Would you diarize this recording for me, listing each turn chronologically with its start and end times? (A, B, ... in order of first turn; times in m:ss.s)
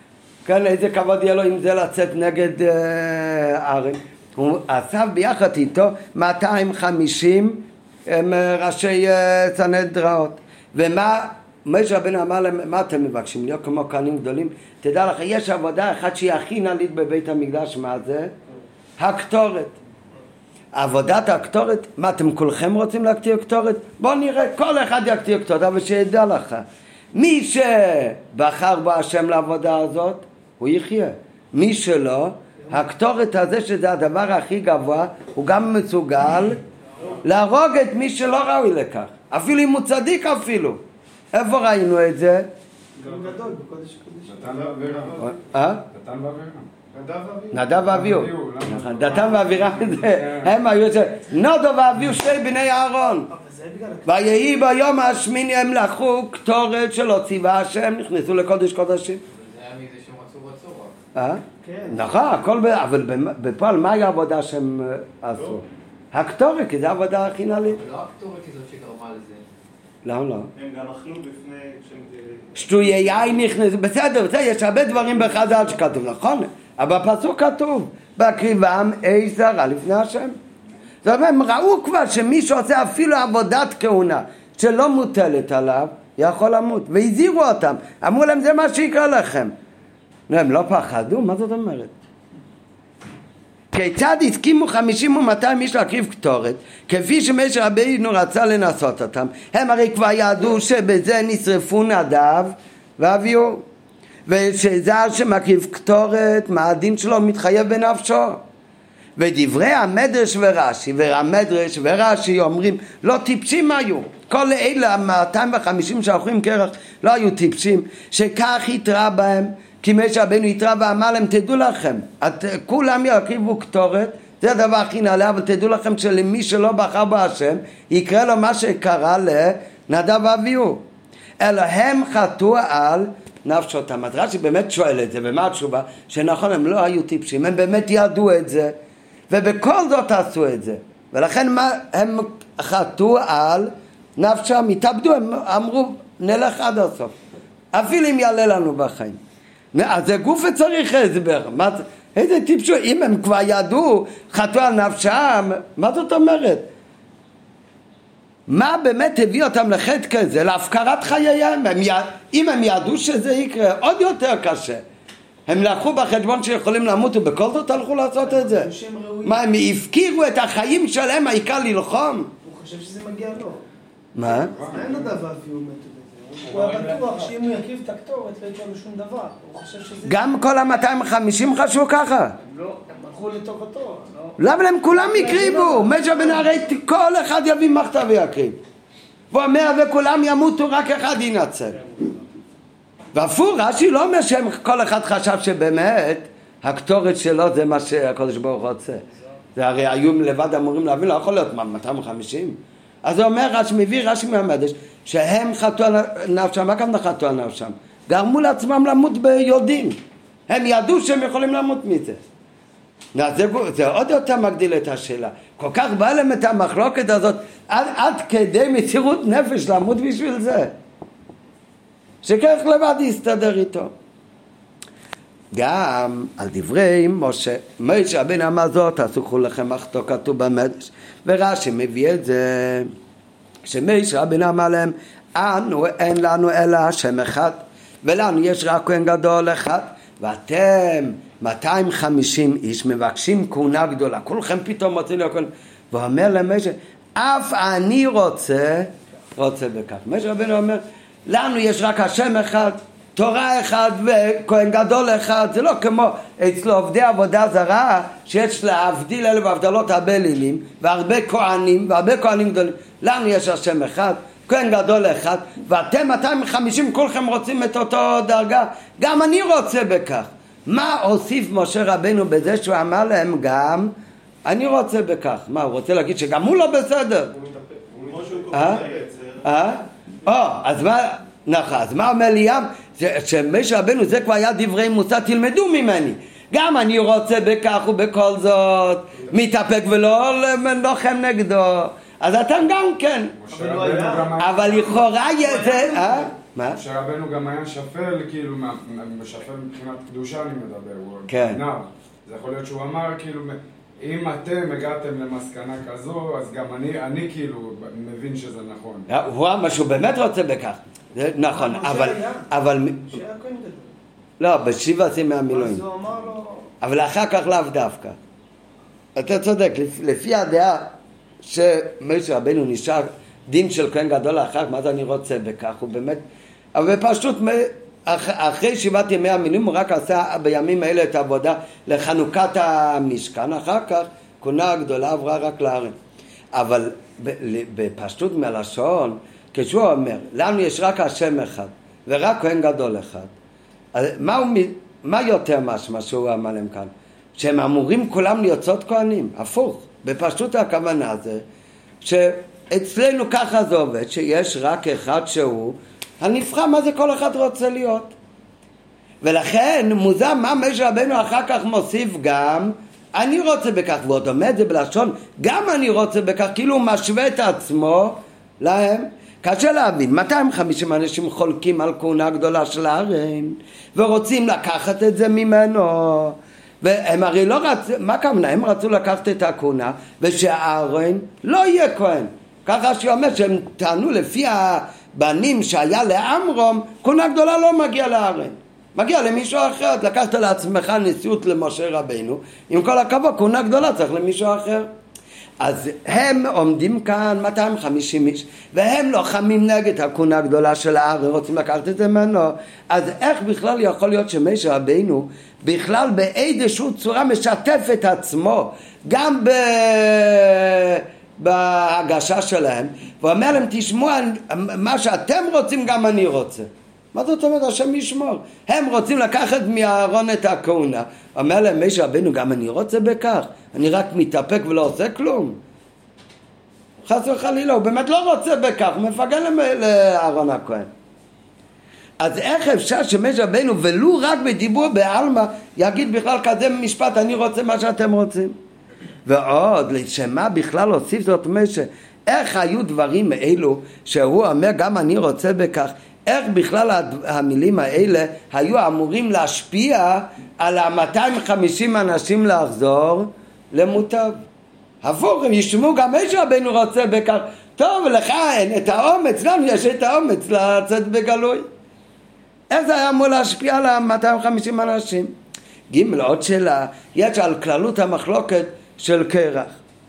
0:00.4-0:18.3 A
0:19.0-0:19.8 A
0:20.7-0:36.6 A
0:37.2-0:40.8 A
0:41.3-0:42.5 A
0:43.0-0:44.7 B
0:44.3-0:46.7 C
0:44.5-0:45.3 D
0:45.2-0:45.8 A
0:46.9-0:47.6 D
0:47.5-0:53.3 A
0:47.9-0:50.5 C
0:53.3-0:54.4 B
0:54.1-0:59.2 A
0:59.3-1:01.0 E
1:01.2-1:07.8 A
1:01.6-1:02.1 B
1:07.8-1:09.4 E
1:10.0-1:10.5 A
1:10.6-1:13.3 D
1:12.6-1:20.4 A
1:21.0-1:29.5 A
1:30.3-1:31.9 A
1:33.7-1:43.6 A
1:44.3-1:48.4 A
1:49.2-2:10.8 A
2:11.4-2:18.8 A
2:19.3-2:27.2 A
2:27.7-2:29.2 A
2:29.7-2:36.7 A
2:38.5-2:44.8 A
2:45.5-2:48.7 A
2:48.2-2:49.4 B
2:49.2-2:52.3 A
2:52.4-2:53.6 B
2:54.2-2:54.5 A
2:54.2-2:55.1 C
2:54.7-3:00.2 B
3:00.0-3:02.4 A
3:02.4-3:04.4 B
3:04.4-3:08.6 A
3:04.9-3:06.7 B
3:09.3-3:11.8 A
3:13.1-3:19.0 A
3:19.6-3:32.2 A
3:33.2-3:40.7 A
3:42.2-3:43.9 A
3:45.5-3:52.9 A
3:53.6-4:33.9 A
4:34.4-4:37.3 A
4:37.3-4:39.7 D
4:38.5-4:38.9 A
4:39.4-4:53.4 A
4:53.4-4:55.1 C
4:53.5-4:54.4 B
4:54.4-4:56.8 A
4:55.4-4:56.3 B
4:56.7-5:09.1 C
5:01.3-5:01.6 A
5:09.1-5:13.2 A
5:11.4-5:12.5 B
5:13.0-5:13.9 B
5:14.4-5:15.8 A
5:15.5-5:16.7 B
5:16.8-5:18.2 A
5:19.2-5:26.2 A
5:26.8-5:36.0 A
5:36.5-5:43.3 A
5:43.9-5:51.4 A
5:52.0-5:58.1 A
5:59.2-6:34.9 A
6:35.6-7:05.6 A
7:07.0-7:10.9 A
7:12.2-7:18.6 A
7:19.3-7:34.4 A
7:35.0-7:41.7 A
7:42.7-7:45.4 A
7:45.9-7:49.8 A